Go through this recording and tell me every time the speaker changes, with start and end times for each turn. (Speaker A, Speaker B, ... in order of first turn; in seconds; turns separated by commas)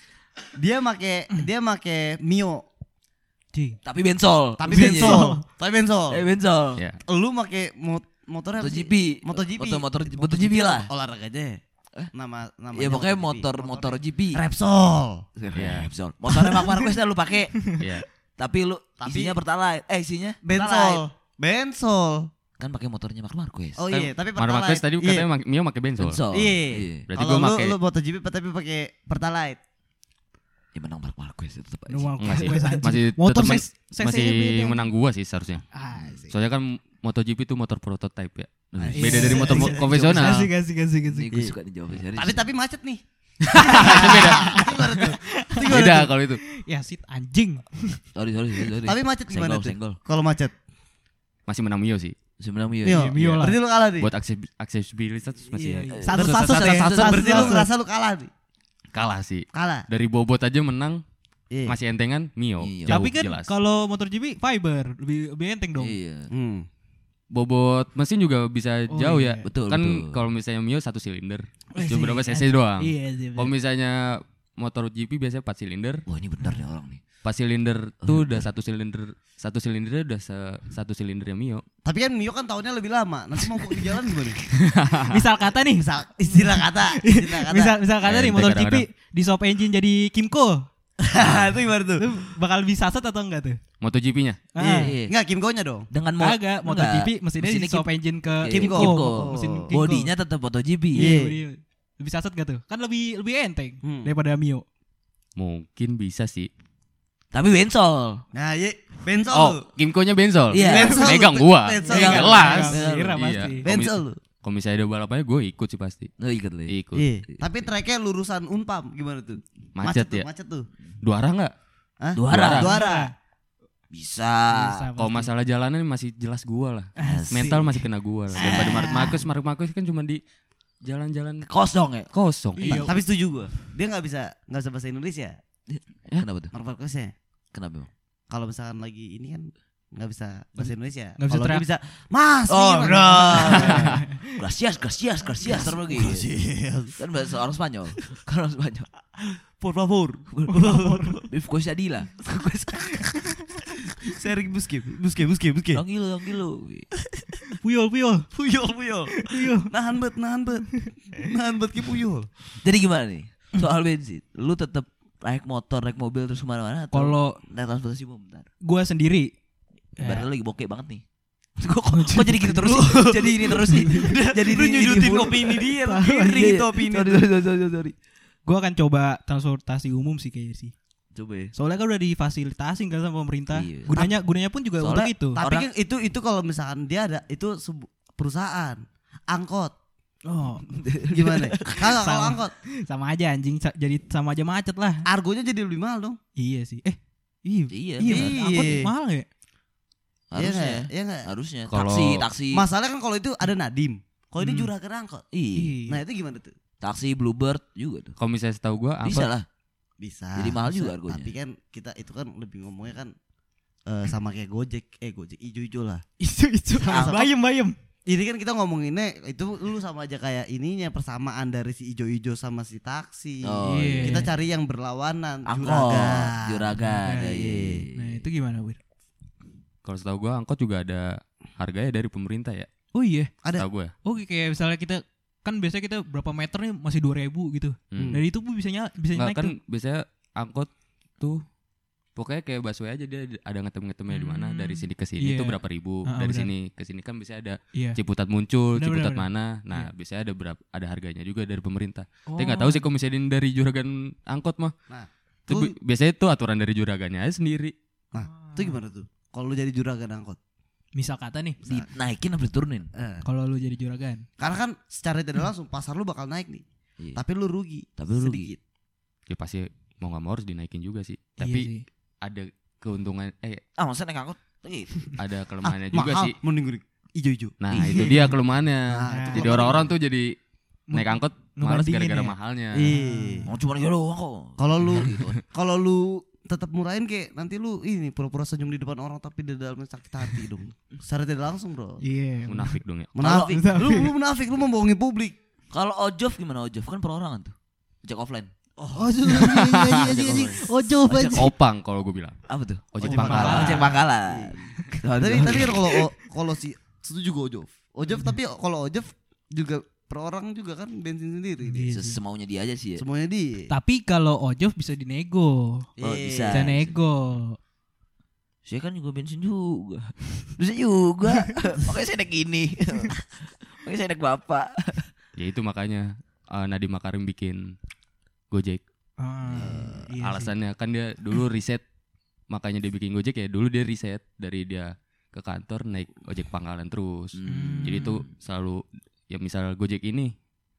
Speaker A: 0.6-2.6, Speaker B: 3.5-3.8, Speaker C: 3.8-5.3, Speaker A: 4.6-6.2, Speaker B: 4.7-5.4, Speaker C: 6.1-6.8, Speaker A: 7.1-11.6, Speaker C: 8.6-10.9, Speaker A: 12.1-15.2, Speaker C: 12.7-14.4, Speaker C: 15.4-17.8, Speaker D: 15.5-15.9, Speaker D: 17.8-18.1, Speaker C: 18.4-21.0, Speaker A: 19.0-19.4, Speaker A: 20.4-22.3, Speaker C: 22.6-24.1, Speaker A: 23.8-25.2, Speaker D: 24.3-26.2, Speaker C: 26.0-27.1, Speaker A: 26.3-29.6, Speaker D: 27.1-27.7, Speaker C: 30.7-32.8, Speaker B: 31.9-34.8, Speaker D: 32.2-35.6, Speaker B: 35.7-36.2, Speaker A: 36.0-36.3, Speaker D: 36.3-40.5, Speaker C: 38.7-40.3, Speaker B: 38.9-41.3, Speaker A: 39.0-40.4, Speaker C: 41.0-42.4, Speaker A: 42.1-43.0, Speaker D: 43.4-46.4, Speaker A: 43.5-46.1, Speaker B: 43.6-45.7, Speaker B: 46.5-48.0, Speaker C: 48.1-50.0, Speaker A: 48.8-50.5, Speaker D: 51.5-52.1, Speaker C: 52.4-53.4, Speaker A: 52.8-54.1, Speaker B: 52.9-53.6, Speaker D: 54.0-56.7, Speaker B: 55.5-57.7, Speaker C: 55.9-57.6, Speaker A: 56.1-58.3, Speaker D: 58.9-61.0, Speaker A: 59.5-59.9, Speaker A: 61.5-61.8, Speaker D: 61.6-63.5, Speaker C: 62.6-63.0, Speaker B: 62.9-66.0, Speaker C: 65.8-66.3, Speaker A: 66.3-66.7, Speaker D: 67.3-76.0, Speaker B: 68.9-69.5, Speaker C: 69.5-70.2, Speaker B: 71.7-73.5, Speaker C: 76.1-77.0, Speaker D: 77.2-81.6, Speaker C: 78.0-78.5, Speaker A: 81.8-84.4, Speaker D: 84.5-85.2, Speaker B: 85.1-90.7, Speaker A: 85.7-87.8, Speaker D: 88.0-88.8, Speaker A: 91.0-92.1, Speaker B: 92.0-93.6, Speaker D: 93.8-94.4, Speaker B: 94.5-94.9, Speaker C: 94.6-95.1, Speaker A: 94.6-95.9, Speaker C: 95.9-101.1, Speaker B: 96.2-100.1, Speaker A: 98.5-99.7, Speaker B: 100.9-104.6, Speaker A: 100.9-101.4, Speaker A: 103.8-104.1, Speaker D: 105.4-106.5, Speaker C: 107.3-108.2, Speaker A: 108.3-109.7, Speaker D: 109.3-116.1, Speaker C: 110.5-111.1, Speaker A: 110.5-112.8, Speaker B: 110.8-111.0, Speaker B: 111.9-113.7, Speaker C: 111.9-113.2, Speaker A: 113.6-114.2, Speaker C: 116.2-116.7, Speaker D: 116.7-117.1, Speaker A: 116.9-120.7, Speaker D: 119.8-120.2, Speaker D: 121.0-121.5, Speaker A: 122.0-123.1, Speaker C: 122.1-122.8, Speaker D: 122.3-122.7, Speaker B: 122.6-123.1, Speaker C: 123.9-124.8, Speaker B: 124.5-125.3, Speaker D: 125.0-130.2, Speaker B: 127.0-127.6, Speaker C: 127.0-129.2, Speaker B: 128.3-129.2, Speaker D: 130.8-131.5, Speaker C: 131.4-132.9, Speaker D: 132.1-132.8, Speaker B: 132.6-132.9, Speaker A: 132.7-135.4, Speaker C: 135.7-136.5, Speaker A: 136.5-137.1, Speaker C: 137.5-137.9, Speaker A: 138.3-144.0, Speaker B: 140.6-141.6, Speaker C: 142.5-146.3, Speaker B: 143.2-144.3, Speaker A: 145.4-147.0, Speaker C: 147.0-148.9, Speaker A: 149.2-151.2, Speaker C: 150.3-150.6, Speaker B: 150.5-151.2, Speaker C: 151.3-152.2, Speaker B: 152.9-153.5, Speaker A: 154.0-155.8, Speaker C: 155.7-156.9, Speaker A: 157.1-157.4, Speaker B: 157.5-158.3, Speaker A: 158.3-162.3, Speaker B: 159.1-159.7, Speaker C: 162.6-168.5, Speaker B: 166.9-167.4, Speaker B: 168.6-169.3, Speaker B: 170.0-170.3, Speaker C: 170.0-171.0, Speaker C: 171.6-175.7, Speaker B: 171.9-174.2, Speaker A: 173.8-177.2, Speaker B: 175.8-176.5, Speaker C: 176.3-177.9, Speaker B: 178.4-180.7, Speaker C: 181.1-181.5, Speaker B: 181.5-185.4, Speaker C: 183.5-184.1, Speaker C: 184.8-185.7, Speaker A: 185.3-189.7, Speaker B: 190.3-190.7, Speaker C: 190.6-191.8, Speaker A: 191.1-192.5, Speaker B: 191.8-195.1, Speaker A: 195.1-196.2, Speaker B: 196.4-199.3, Speaker C: 197.7-198.9, Speaker A: 198.0-198.9, Speaker C: 200.3-202.7, Speaker A: 200.3-201.3, Speaker D: 201.7-202.3, Speaker A: 202.5-205.2, Speaker B: 204.4-204.7, Speaker C: 205.3-205.8, Speaker B: 205.6-206.0, Speaker A: 205.9-206.6, Speaker C: 206.8-208.2, Speaker D: 208.2-209.3, Speaker C: 209.0-209.4, Speaker A: 210.0-213.1, Speaker C: 210.3-211.3, Speaker A: 213.9-216.0, Speaker B: 216.2-217.7, Speaker C: 216.8-217.3, Speaker A: 216.9-217.2, Speaker A: 218.1-227.8, Speaker C: 223.4-224.3, Speaker B: 223.6-224.3, Speaker C: 225.4-228.3, Speaker B: 226.8-228.8, Speaker D: 229.8-232.7, Speaker B: 232.9-233.3, Speaker D: 233.6-233.9, Speaker B: 234.0-239.5, Speaker D: 237.9-238.2, Speaker A: 237.9-238.2, Speaker D: 239.1-241.4, Speaker D: 242.2-254.7, Speaker B: 244.1-246.5, Speaker B: 247.7-248.0, Speaker B: 248.8-249.9, Speaker B: 252.3-252.8, Speaker A: 254.9-255.7, Speaker D: 255.5-257.7, Speaker A: 258.1-260.4, Speaker B: 258.2-258.8, Speaker B: 260.9-261.6, Speaker A: 261.6-261.9, Speaker C: 261.6-262.9, Speaker A: 262.9-263.2, Speaker B: 263.2-264.2, Speaker A: 264.4-266.6, Speaker A: 267.1-268.6, Speaker C: 268.0-268.5, Speaker D: 269.3-271.7, Speaker B: 271.4-271.8, Speaker D: 272.2-273.6, Speaker C: 273.8-275.1, Speaker D: 275.1-276.4, Speaker A: 275.7-278.1, Speaker D: 277.6-280.3, Speaker C: 277.7-278.2, Speaker A: 278.9-279.9, Speaker B: 279.1-279.7, Speaker B: 280.9-283.5, Speaker D: 280.9-282.9, Speaker A: 282.7-283.5, Speaker C: 283.4-285.4, Speaker A: 284.6-292.0, Speaker B: 292.0-292.8, Speaker D: 292.5-293.1, Speaker A: 293.1-295.3, Speaker C: 293.2-293.6, Speaker B: 293.5-294.1, Speaker C: 295.7-298.5, Speaker A: 298.8-301.3, Speaker B: 299.0-301.5, Speaker D: 299.5-300.6, Speaker D: 301.2-302.4, Speaker C: 302.5-305.9, Speaker D: 302.9-304.0, Speaker A: 303.0-311.9, Speaker B: 303.1-304.0, Speaker B: 311.6-312.2, Speaker C: 311.9-313.0, Speaker A: 313.0-313.7, Speaker B: 313.7-315.9, Speaker A: 316.0-316.7, Speaker C: 316.0-317.0, Speaker B: 316.5-317.6, Speaker C: 318.6-325.1, Speaker D: 325.4-327.6, Speaker D: 328.5-328.8, Speaker B: 329.2-330.5, Speaker C: 329.5-329.9, Speaker A: 329.6-330.0, Speaker D: 330.2-331.8, Speaker D: 332.5-340.3, Speaker C: 337.3-338.2, Speaker B: 337.5-338.2